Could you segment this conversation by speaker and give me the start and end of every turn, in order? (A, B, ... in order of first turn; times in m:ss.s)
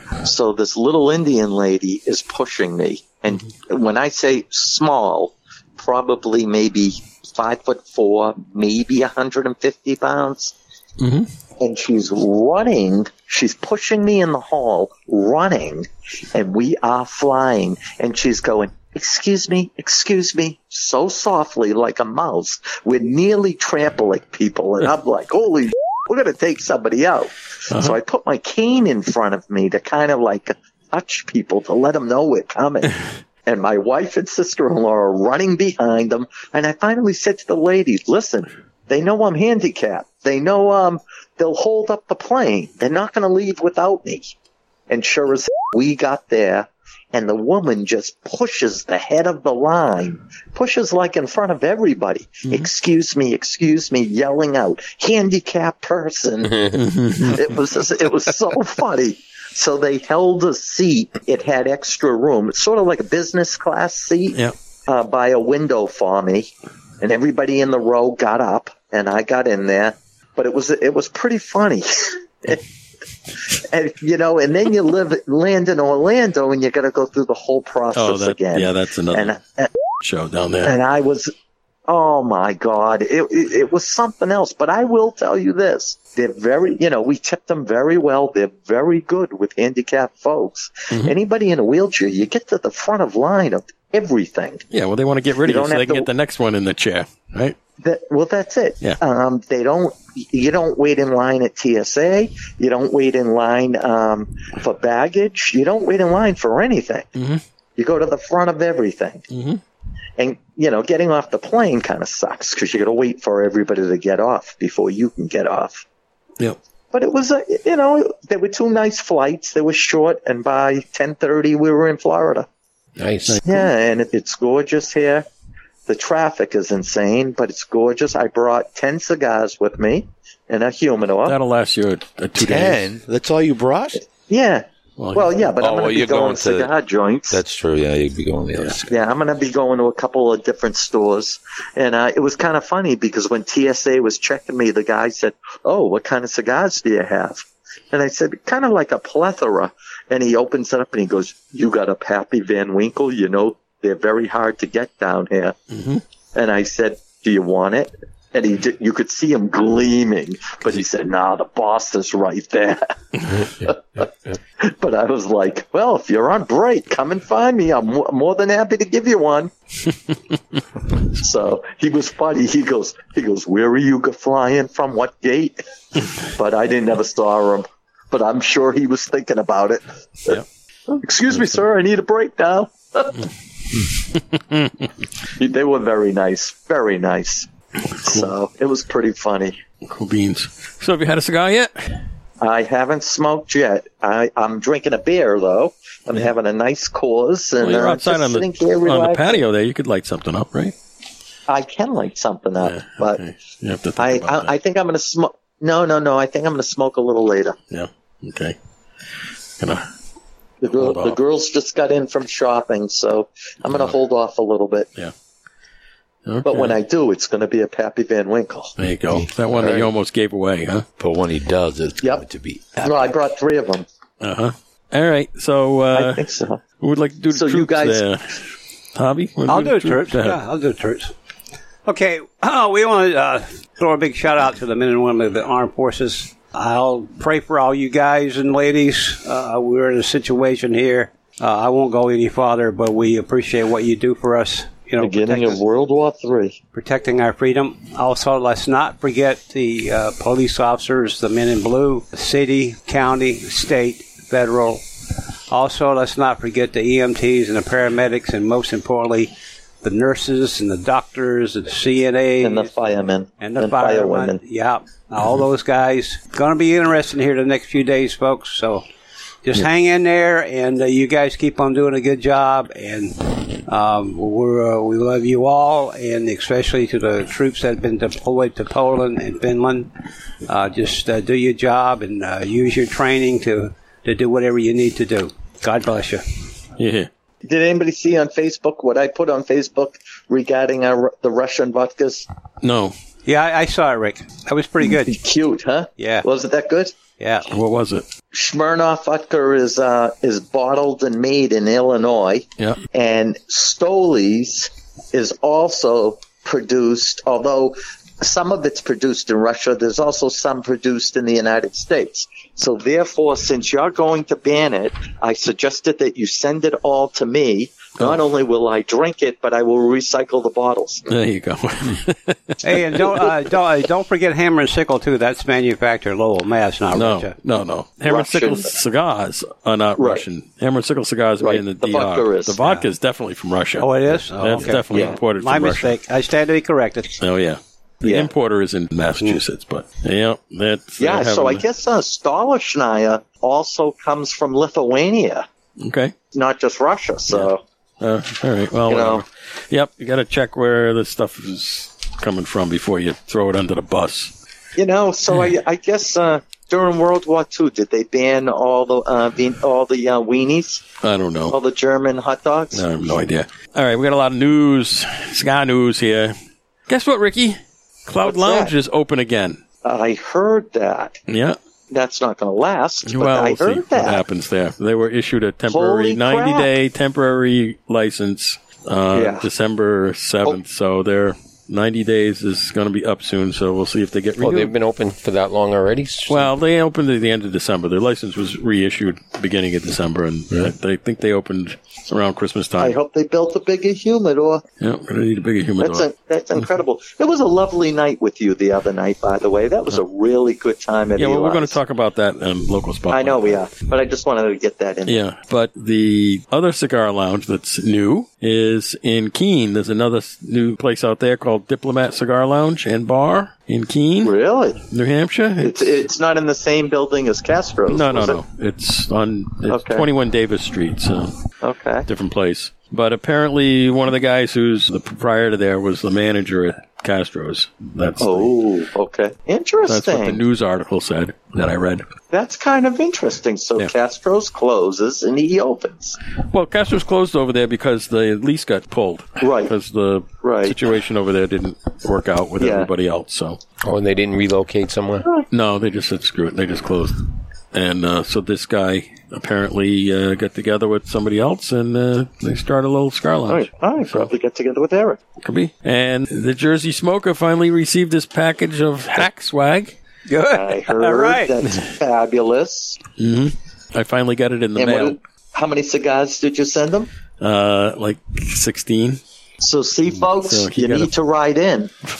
0:00.2-0:10.5 A
0:11.0-0:11.3 B
0:11.6-0:32.9 A
0:27.7-0:28.0 B
0:33.4-0:44.3 A
0:44.9-1:12.6 A
0:56.7-0:57.5 B
1:13.5-1:19.7 A
1:17.9-1:19.4 B
1:20.0-1:20.8 B
1:20.6-1:21.3 A
1:21.9-1:34.6 A
1:34.7-1:37.6 B
1:35.4-1:36.1 A
1:37.8-1:47.1 A
1:47.2-1:47.4 B
1:47.8-1:49.3 A
1:49.3-1:49.6 B
1:50.2-1:55.8 A
1:56.9-2:02.5 A
2:03.0-2:03.4 C
2:03.3-2:03.7 B
2:03.4-2:05.2 A
2:05.9-2:11.4 A
2:11.2-2:12.8 B
2:12.4-2:14.0 D
2:14.3-2:17.4 A
2:15.0-2:15.3 B
2:15.6-2:16.7 D
2:17.3-2:18.9 D
2:18.9-2:35.6 A
2:35.7-2:36.0 B
2:36.3-2:44.0 A
2:44.6-2:49.5 A
2:51.1-2:55.6 A
2:56.2-3:03.2 A
3:04.4-3:04.7 B
3:05.4-3:07.5 A
3:08.0-3:08.3 B
3:08.0-3:09.6 A
3:09.8-3:11.7 B
3:12.4-3:19.4 A
3:17.6-3:20.7 B
3:21.5-3:23.2 A
3:22.6-3:24.5 B
3:24.0-3:27.6 A
3:27.7-3:28.6 B
3:29.6-3:29.9 B
3:30.6-3:34.9 A
3:30.8-3:31.2 B
3:36.2-3:36.8 B
3:36.4-3:38.7 A
3:38.8-3:40.8 B
3:41.0-3:43.1 D
3:42.0-3:42.2 A
3:42.8-3:43.8 A
3:44.2-3:46.2 B
3:45.9-3:46.6 A
3:46.8-3:50.4 B
3:47.3-3:48.0 A
3:49.4-3:51.1 E
3:51.8-4:05.6 E
4:05.0-4:06.6 A
4:06.7-4:14.8 E
4:15.5-4:22.7 E
4:22.4-4:24.4 A
4:23.4-4:28.8 E
4:29.4-4:39.9 E
4:40.4-4:46.2 E
4:46.8-4:47.1 B
4:47.4-4:52.3 A
4:52.6-4:52.9 B
4:53.2-4:55.2 E
4:54.8-4:56.9 A
4:56.0-4:56.2 E
4:57.2-4:57.5 E
4:57.5-4:58.0 B
4:58.3-5:21.0 A
5:21.1-5:22.6 B
5:22.6-5:27.3 E
5:26.9-5:35.9 B
5:28.1-5:28.7 A
5:30.0-5:30.2 A
5:31.4-5:32.6 A
5:32.6-5:32.9 E
5:33.8-5:37.1 E
5:34.9-5:35.2 A
5:37.2-5:41.6 B
5:38.0-5:38.3 A
5:41.0-5:45.4 A
5:45.8-5:46.1 B
5:46.3-5:47.6 A
5:47.3-5:54.3 B
5:48.9-5:49.2 A
5:54.8-6:00.8 A
6:01.0-6:01.6 B
6:01.5-6:02.9 A
6:02.7-6:06.4 B
6:06.9-6:09.6 B
6:08.2-6:08.7 A
6:09.8-6:11.2 A
6:11.3-6:11.6 B
6:11.9-6:14.2 A
6:13.0-6:24.7 B
6:15.7-6:16.7 A
6:19.1-6:19.5 A
6:24.4-6:26.5 C
6:26.3-6:33.0 B
6:32.8-6:34.6 A
6:34.8-6:36.0 B
6:35.8-6:41.8 A
6:41.2-6:43.6 B
6:43.1-6:45.2 A
6:45.0-6:54.3 B
6:54.2-6:54.9 A
6:54.9-6:56.0 B
6:55.6-6:58.4 A
6:57.9-7:01.3 B
6:59.7-7:00.1 A
7:01.6-7:02.1 A
7:02.1-7:08.5 B
7:08.2-7:10.4 A
7:09.8-7:12.0 B
7:12.3-7:16.2 A
7:16.5-7:23.6 B
7:19.4-7:19.7 A
7:20.4-7:20.8 A
7:22.6-7:22.9 A
7:23.8-7:25.3 C
7:25.5-7:34.3 B
7:33.5-7:35.2 A
7:35.4-7:40.0 B
7:40.3-7:41.6 E
7:40.5-7:43.0 A
7:43.2-7:45.2 B
7:44.8-7:47.1 A
7:47.4-7:49.2 B
7:49.6-7:52.0 A
7:50.4-7:51.1 B